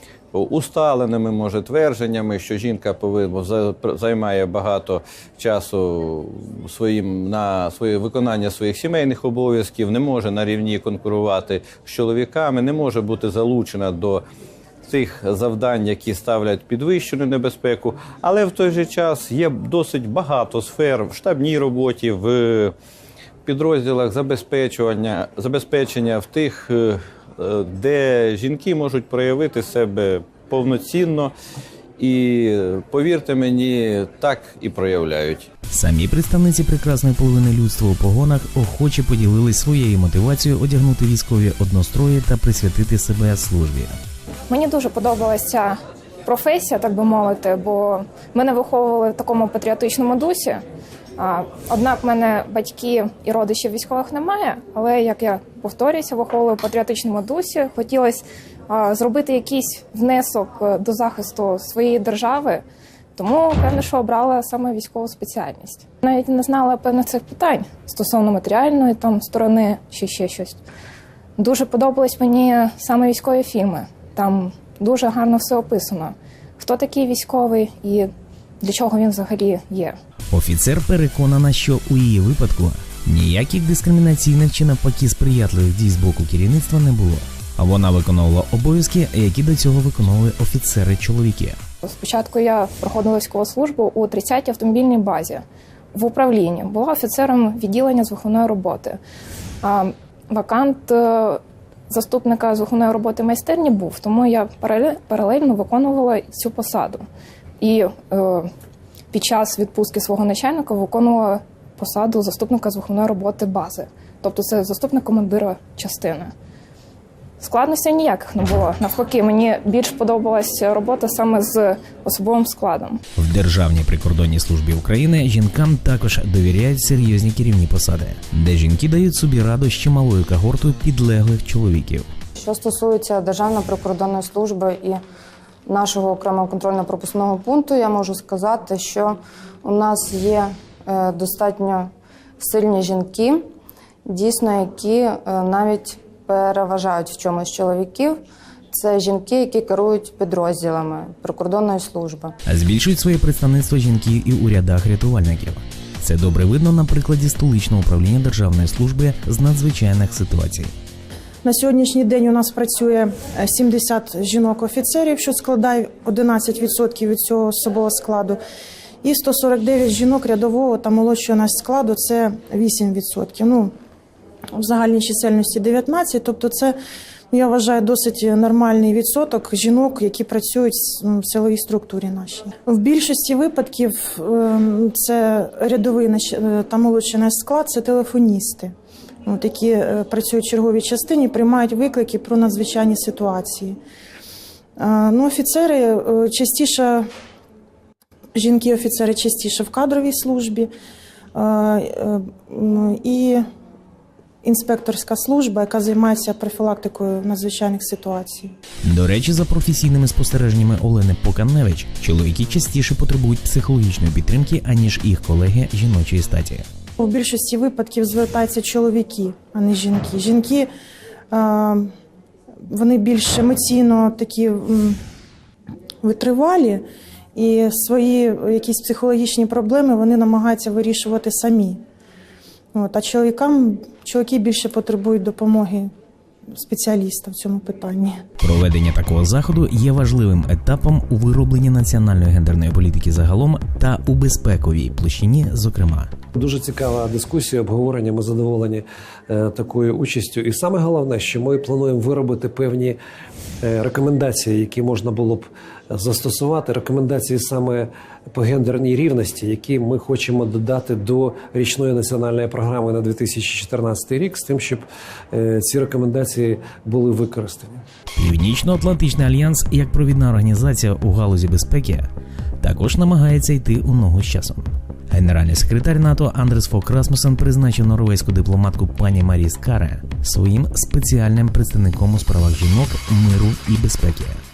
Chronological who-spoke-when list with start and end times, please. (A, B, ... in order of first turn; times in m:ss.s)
0:00.3-0:14.2 A
0:14.8-0:22.7 A
0:23.4-0:31.3 A
0:32.0-0:35.5 A
0:35.7-0:44.0 B
0:44.5-0:50.6 C
0:51.2-1:02.6 C
1:03.2-1:10.6 C
1:11.4-1:18.1 C
1:18.6-1:19.9 C
1:20.3-1:31.6 B
1:31.9-1:35.4 C
1:35.9-1:39.0 C
1:39.6-1:47.0 C
1:47.6-1:48.5 C
1:49.1-1:56.3 C
1:57.4-2:03.0 C
2:03.2-2:12.1 B
2:12.4-2:15.0 D
2:15.6-2:23.5 D
2:24.0-2:28.2 D
2:28.7-2:32.4 D
2:32.4-2:40.7 B
2:41.4-2:48.4 E
2:49.0-2:53.7 E
2:54.6-2:56.7 E
2:57.3-3:08.7 E
3:09.2-3:13.8 E
3:14.8-3:17.0 E
3:18.3-3:20.7 E
3:21.3-3:23.4 E
3:24.4-3:28.5 E
3:28.8-3:36.6 B
3:37.0-3:40.7 E
3:41.3-3:41.9 E
3:42.7-3:45.0 E
3:46.0-3:46.8 E
3:47.3-3:51.8 E
3:52.7-3:55.9 E
3:56.5-3:58.2 E
3:58.4-4:06.1 B
4:06.4-4:13.0 F
4:13.6-4:27.8 F
4:28.2-4:32.1 B
4:32.6-4:44.4 B